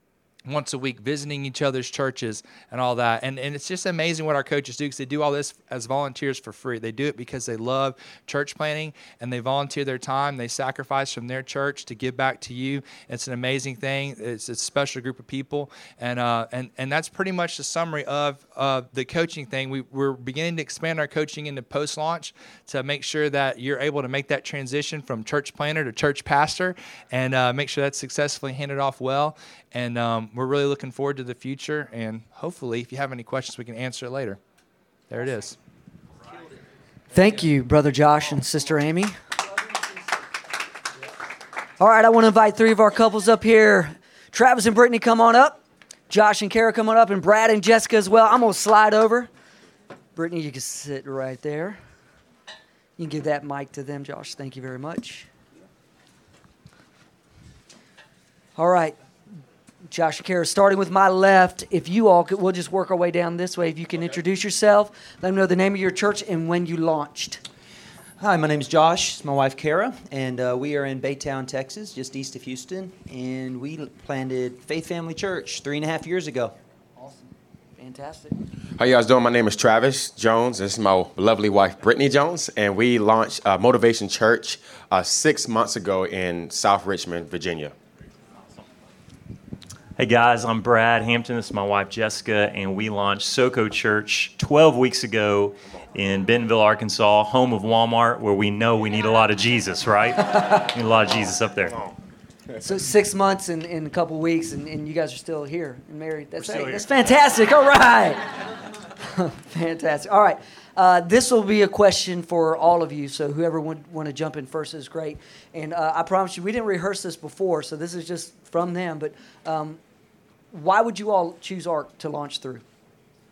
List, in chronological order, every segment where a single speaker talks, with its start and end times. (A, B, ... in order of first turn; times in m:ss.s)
0:00.4-0:34.4 A
0:35.1-0:35.6 A
0:37.1-0:39.1 B
0:41.8-0:49.3 B
0:50.2-0:51.8 B
0:53.0-0:55.3 B
0:58.6-0:59.0 B
0:59.9-1:07.4 B
1:08.2-1:16.5 C
1:17.0-1:17.2 B
1:17.8-1:18.3 B
1:18.8-1:27.7 D
1:30.0-1:41.8 E
1:42.6-1:48.3 B
1:49.0-1:59.8 B
2:00.5-2:02.6 B